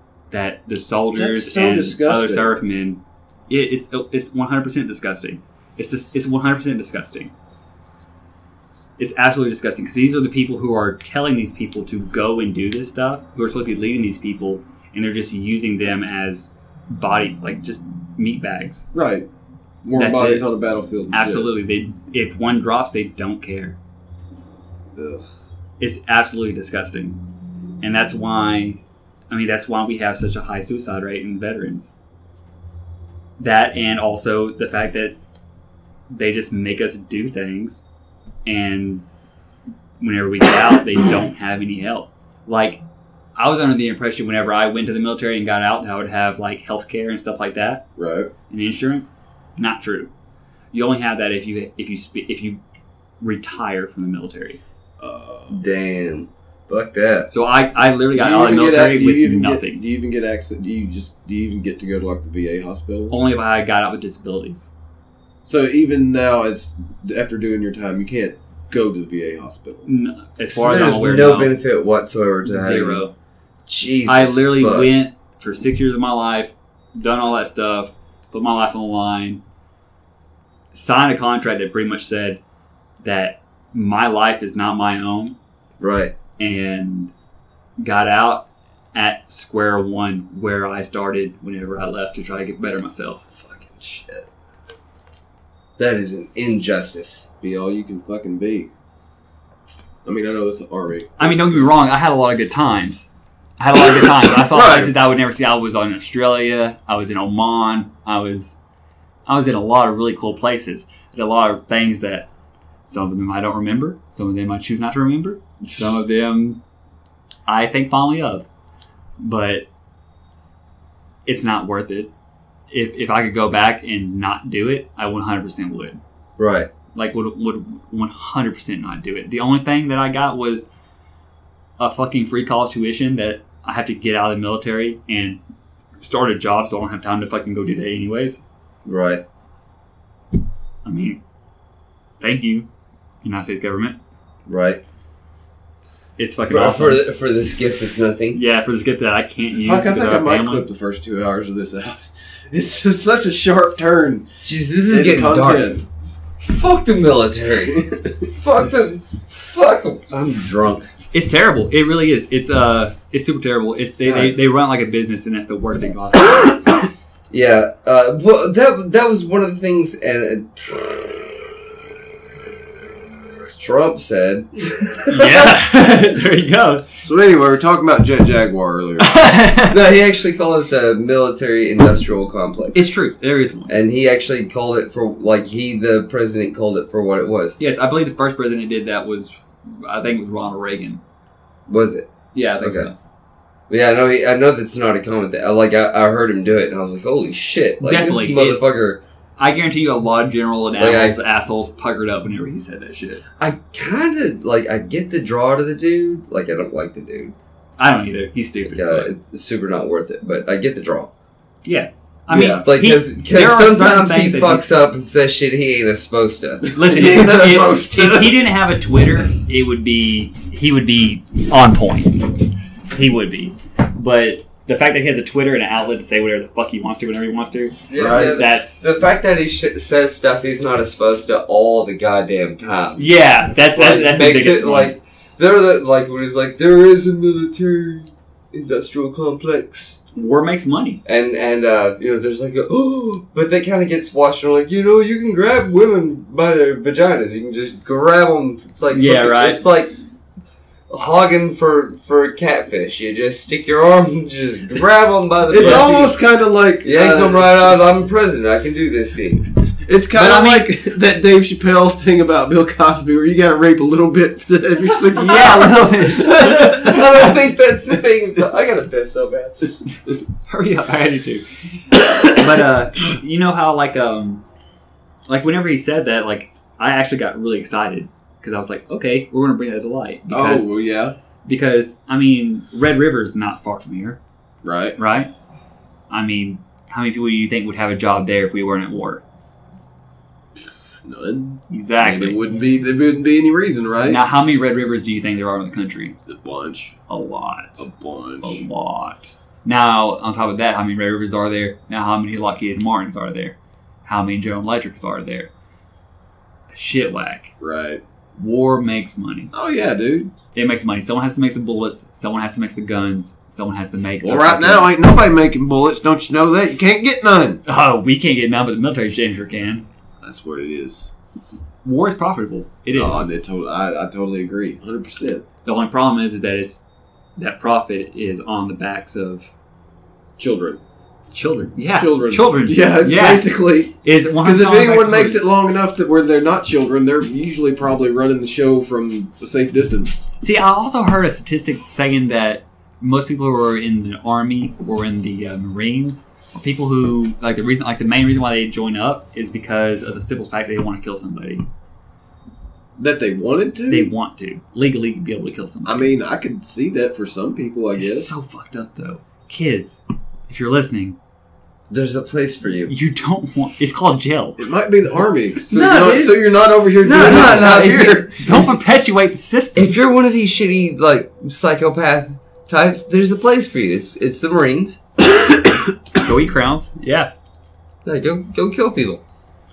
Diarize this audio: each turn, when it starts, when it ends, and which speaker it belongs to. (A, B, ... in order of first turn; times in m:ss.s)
0:00.3-0:07.3 A
0:01.1-0:02.6 B
0:09.0-0:18.9 A
0:18.9-0:19.3 B
0:19.8-0:21.5 B
0:20.0-0:20.5 A
0:21.1-0:23.8 A
0:25.0-0:25.3 B
0:25.8-0:27.2 A
0:27.8-0:31.9 A
0:33.4-0:35.2 A
0:36.1-0:37.8 A
0:38.4-0:39.1 A
0:40.0-0:42.8 A
0:43.4-0:47.8 A
0:48.0-0:48.3 B
0:48.5-0:50.1 A
0:50.7-0:52.6 A
0:53.2-0:54.6 A
0:55.0-0:55.6 B
0:55.5-0:57.3 C
0:57.3-0:59.8 A
0:58.1-1:03.2 B
1:03.1-1:04.7 A
1:05.5-1:09.9 B
1:09.9-1:11.5 A
1:10.5-1:13.0 C
1:12.5-1:13.1 A
1:13.7-1:14.9 C
1:14.1-1:19.4 A
1:20.7-1:22.4 A
1:23.0-1:25.4 A
1:25.8-1:26.2 C
1:26.4-1:27.1 A
1:27.8-1:33.3 A
1:33.3-1:34.3 C
1:35.8-1:37.3 C
1:37.4-1:38.7 B
1:40.0-1:41.6 B
1:41.2-1:48.6 A
1:44.3-1:45.0 B
1:49.3-1:52.3 A
1:52.9-1:56.6 A
1:57.5-1:58.5 A
1:59.2-1:59.7 A
2:01.3-2:02.1 A
2:02.7-2:06.0 A
2:06.4-2:06.7 C
2:06.9-2:10.7 A
2:11.8-2:15.4 A
2:16.0-2:18.4 A
2:18.8-2:19.2 C
2:20.8-2:21.2 A
2:22.2-2:22.7 A
2:23.2-2:24.0 A
2:24.5-2:24.8 C
2:26.2-2:27.0 A
2:26.5-2:28.4 C
2:28.3-2:30.6 A
2:29.5-2:35.8 B
2:34.4-2:35.8 C
2:36.4-2:40.9 C
2:41.1-2:46.8 A
2:44.0-2:44.4 B
2:47.3-2:50.9 C
2:53.6-2:55.6 C
2:55.1-2:56.9 A
2:57.0-2:59.1 B
2:59.0-2:59.8 A
2:59.6-3:02.8 C
3:02.7-3:03.8 A
3:03.7-3:07.6 C
3:07.6-3:11.0 A
3:11.7-3:12.1 C
3:12.3-3:13.0 A
3:12.6-3:12.9 C
3:13.7-3:19.0 C
3:17.8-3:18.6 A
3:19.4-3:23.2 A
3:20.8-3:21.2 C
3:23.4-3:27.4 C
3:27.8-3:29.1 A
3:28.7-3:31.1 C
3:31.6-3:34.6 A
3:32.3-3:32.7 B
3:32.6-3:36.7 C
3:36.7-3:38.4 B
3:36.8-3:48.8 A
3:47.9-3:53.1 C
3:48.0-3:48.3 B
3:53.0-3:55.0 A
3:53.7-4:00.0 C
4:00.2-4:01.0 A
4:01.0-4:09.9 C
4:08.9-4:09.7 A
4:10.9-4:16.2 C
4:15.5-4:17.6 B
4:15.6-4:15.9 A
4:16.8-4:19.5 C
4:19.8-4:27.4 B
4:20.1-4:20.7 A
4:25.1-4:26.6 A
4:26.4-4:29.7 C
4:30.5-4:34.4 A
4:35.3-4:40.7 A
4:40.3-4:41.2 B
4:41.4-4:44.2 A
4:44.6-4:45.0 B
4:45.0-4:45.3 A
4:46.1-4:49.2 A
4:51.0-4:54.2 B
4:51.7-4:52.4 A
4:54.1-4:56.2 A
4:56.3-4:57.0 B
4:57.1-4:57.8 A
4:57.8-4:58.6 B
4:58.4-5:05.5 A
5:06.7-5:07.5 A
5:07.6-5:08.0 B
5:08.4-5:09.5 A
5:09.5-5:10.3 B
5:10.6-5:14.9 A
5:14.2-5:17.6 B
5:17.7-5:19.9 A
5:20.2-5:21.1 B
5:21.8-5:23.2 A
5:23.0-5:25.4 B
5:25.6-5:26.8 A
5:27.4-5:29.5 A
5:30.4-5:30.8 B
5:31.3-5:35.4 A
5:31.8-5:40.3 B
5:40.4-5:51.7 A
5:53.0-5:54.1 B
5:53.9-5:56.1 A
5:55.8-5:58.3 B
5:58.0-6:01.2 A
6:01.9-6:02.9 C
6:02.9-6:04.8 A
6:04.6-6:08.6 B
6:05.7-6:06.1 A
6:05.8-6:06.4 C
6:07.0-6:08.3 C
6:08.4-6:09.9 A
6:09.8-6:15.0 C
6:16.2-6:17.3 A
6:18.0-6:19.2 C